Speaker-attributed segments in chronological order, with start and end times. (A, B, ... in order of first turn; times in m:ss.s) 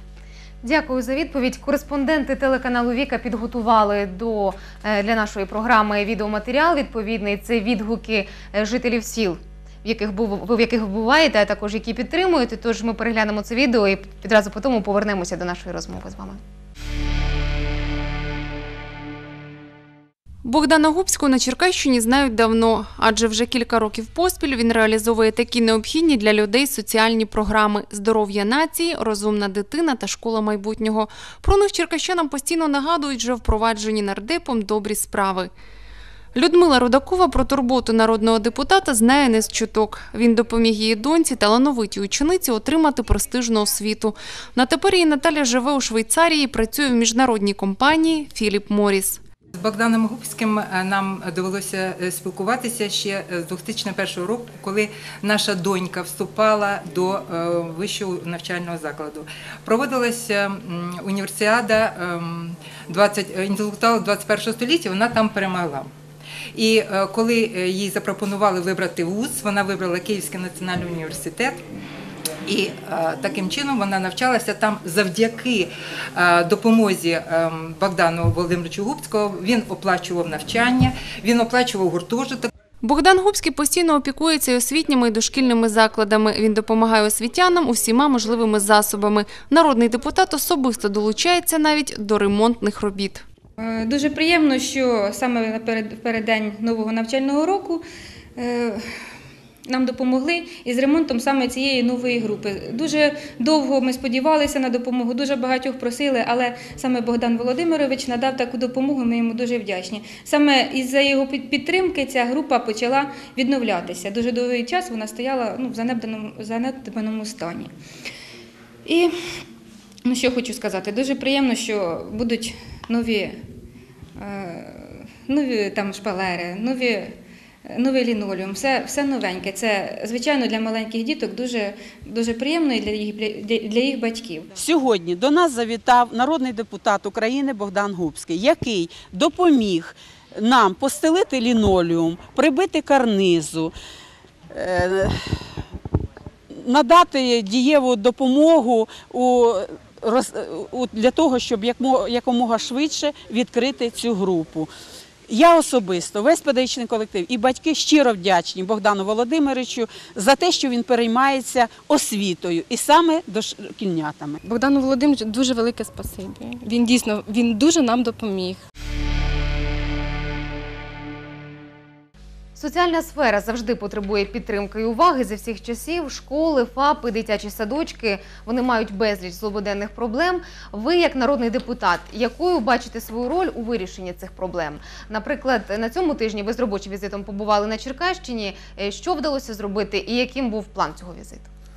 0:00.6-0:16.4 A
0:20.4-0:35.5 B
0:36.3-0:49.2 B
0:49.5-1:05.9 C
1:06.5-1:11.6 C
1:12.4-1:22.5 C
1:22.8-1:33.2 B
1:33.6-1:37.8 D
1:38.4-1:38.8 D
1:39.7-1:57.7 D
1:58.8-1:59.1 D
2:00.0-2:03.4 D
2:04.2-2:07.2 D
2:07.7-2:14.5 D
2:14.5-2:23.7 E
2:24.5-2:25.3 E
2:26.5-2:34.7 E
2:35.3-2:44.4 E
2:44.4-2:48.6 F
2:52.6-3:11.5 A